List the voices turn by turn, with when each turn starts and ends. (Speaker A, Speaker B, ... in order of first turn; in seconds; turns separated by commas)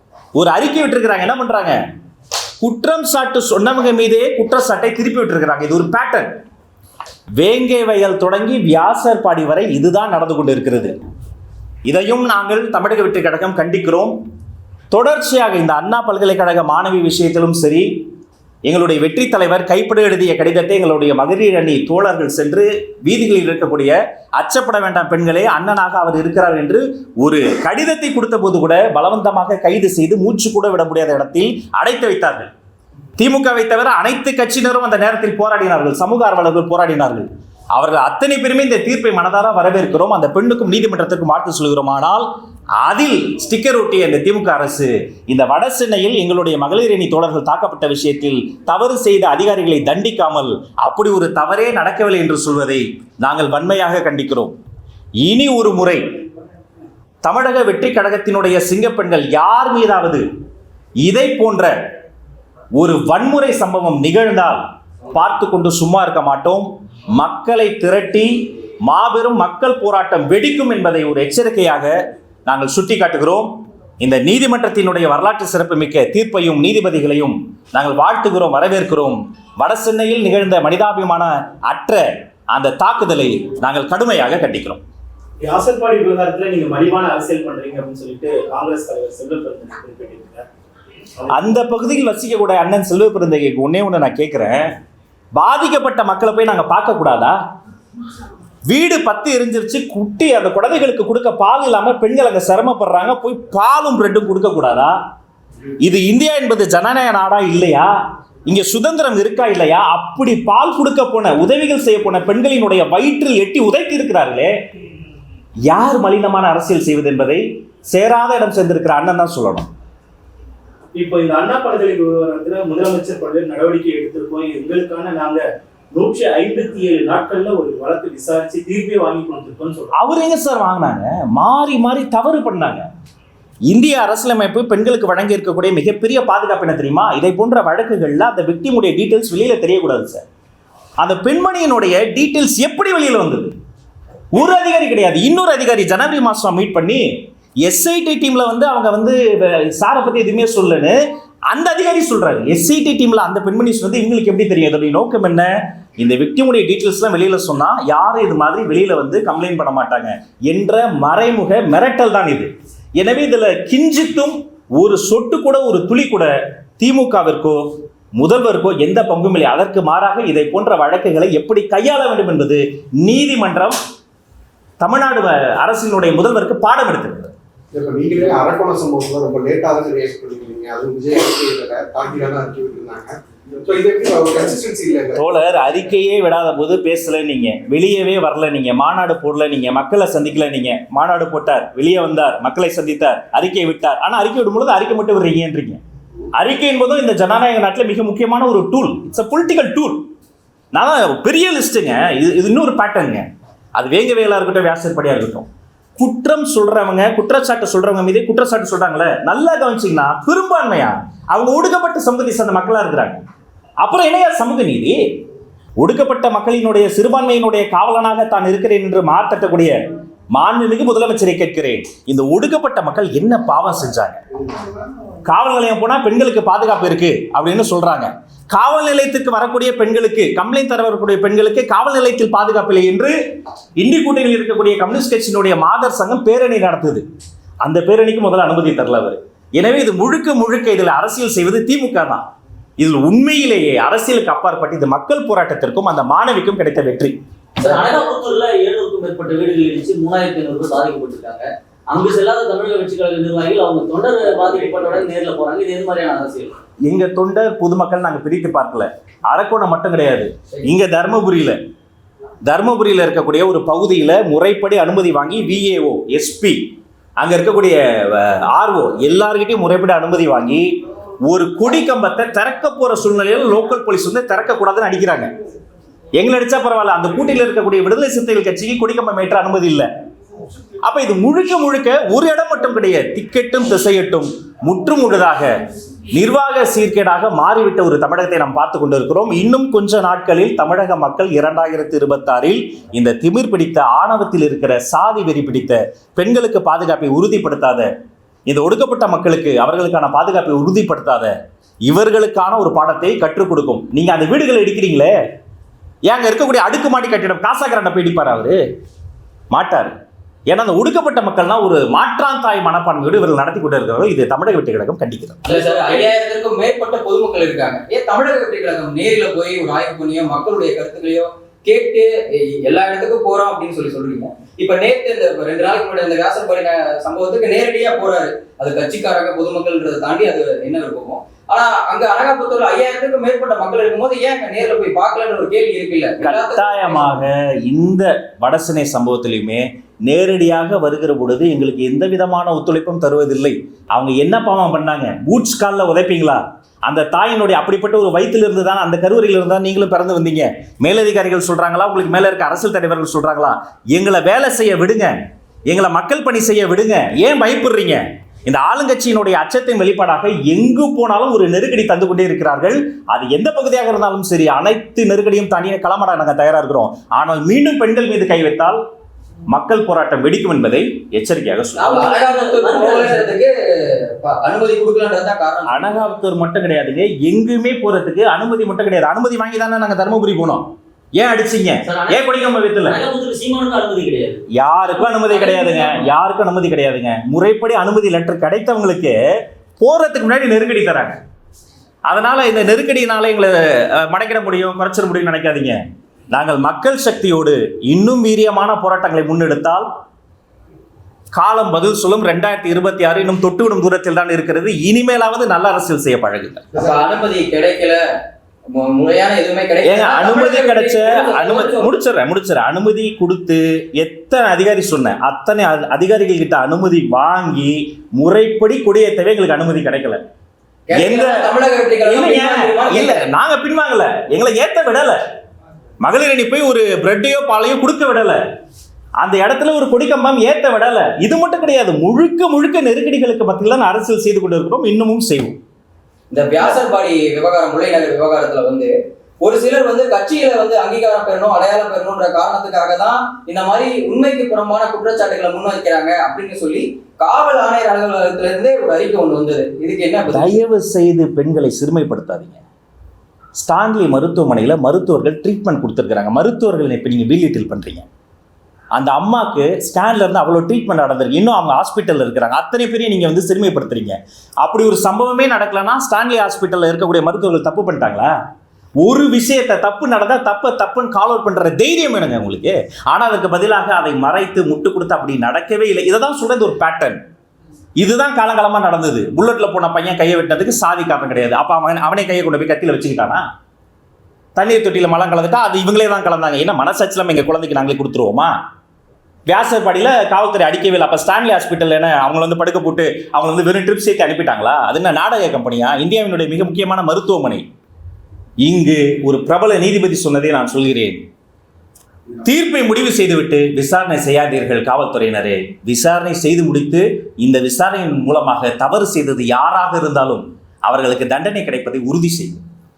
Speaker A: 0.3-1.8, Speaker A: 2.6-6.3, Speaker A: 7.4-10.9, Speaker A: 11.9-14.2, Speaker A: 14.9-17.9, Speaker A: 18.7-32.5, Speaker A: 33.2-42.3, Speaker A: 42.8-54.5, Speaker A: 55.2-56.0, Speaker A: 57.2-60.2, Speaker A: 61.0-61.8, Speaker A: 62.8-84.8, Speaker B: 85.4-90.5, Speaker A: 91.3-94.7, Speaker A: 95.4-97.4, Speaker A: 98.7-105.0, Speaker A: 105.8-107.9, Speaker A: 108.5-114.5, Speaker A: 115.7-119.7, Speaker B: 121.0-129.9, Speaker A: 130.0-132.9, Speaker A: 133.7-140.2, Speaker A: 141.0-143.5, Speaker A: 144.3-147.1, Speaker A: 147.7-151.0, Speaker A: 151.5-173.8, Speaker A: 174.8-177.3, Speaker C: 177.7-185.2, Speaker A: 185.2-195.8, Speaker A: 196.3-200.1, Speaker A: 200.7-203.3, Speaker A: 203.8-205.5, Speaker A: 206.0-213.2, Speaker A: 213.8-215.0, Speaker A: 215.8-219.8, Speaker A: 220.3-224.2, Speaker A: 225.3-233.2, Speaker A: 233.8-237.0, Speaker A: 237.6-242.3, Speaker A: 242.8-247.2, Speaker D: 247.6-256.6, Speaker A: 256.8-261.6, Speaker A: 262.4-266.6, Speaker A: 267.2-275.3, Speaker A: 276.2-279.9, Speaker A: 280.8-285.6, Speaker A: 286.1-297.9, Speaker A: 298.5-301.3, Speaker A: 301.9-305.2, Speaker A: 306.1-308.6, Speaker A: 309.5-309.9, Speaker A: 310.5-315.5, Speaker E: 315.4-322.1, Speaker D: 315.5-316.0, Speaker E: 322.6-337.2, Speaker A: 336.2-368.8, Speaker A: 369.5-372.1, Speaker E: 371.8-376.1, Speaker D: 371.9-373.3, Speaker A: 375.7-383.0, Speaker D: 381.9-384.4, Speaker A: 384.5-389.2, Speaker D: 385.1-386.1, Speaker A: 389.8-391.2, Speaker A: 392.1-395.8, Speaker A: 396.3-399.9, Speaker A: 401.4-406.6, Speaker E: 406.8-408.0, Speaker E: 408.7-412.0, Speaker A: 409.8-420.2, Speaker E: 420.9-423.3, Speaker A: 421.0-421.5, Speaker A: 422.0-425.2, Speaker A: 426.0-428.4, Speaker A: 429.2-435.6, Speaker E: 436.3-450.6, Speaker A: 450.3-452.6, Speaker A: 453.6-458.1, Speaker A: 458.9-468.3, Speaker A: 469.0-477.2, Speaker A: 478.0-483.5, Speaker A: 484.6-488.5, Speaker A: 489.5-497.7, Speaker A: 498.6-501.2, Speaker A: 502.4-512.6